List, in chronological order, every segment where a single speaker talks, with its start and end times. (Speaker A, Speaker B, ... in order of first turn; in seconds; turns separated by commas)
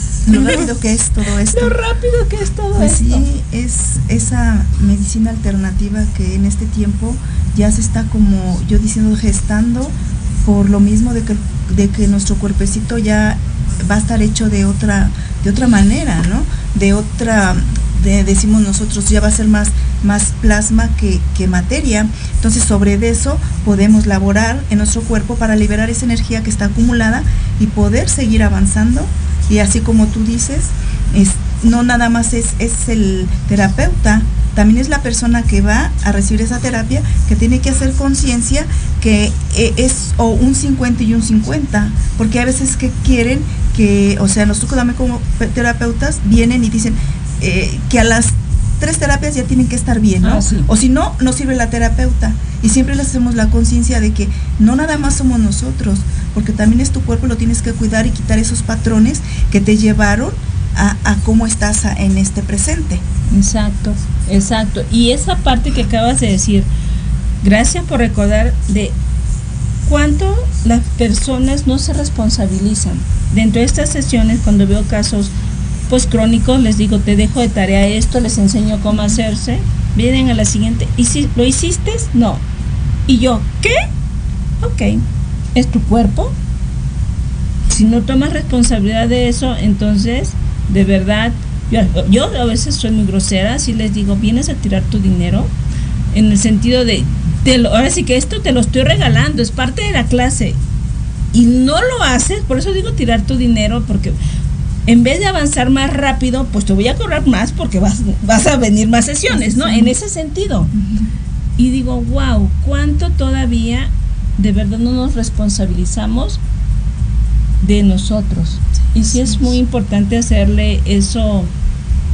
Speaker A: 0.2-1.8, Speaker B: 0.3-0.7, Speaker B: 1.5-3.2, Speaker A: 2.8-63.0, Speaker B: 50.2-50.7, Speaker B: 63.3-66.7, Speaker B: 67.4-69.0, Speaker B: 69.8-75.3, Speaker B: 75.9-82.4, Speaker B: 83.1-83.8, Speaker B: 84.6-85.0, Speaker B: 85.5-86.3, Speaker B: 87.7-95.5, Speaker B: 96.1-100.6, Speaker B: 101.3-104.2, Speaker B: 104.9-110.7, Speaker A: 109.3-109.9, Speaker A: 110.7-111.1, Speaker B: 111.6-116.4, Speaker B: 117.6-121.5, Speaker A: 118.9-119.5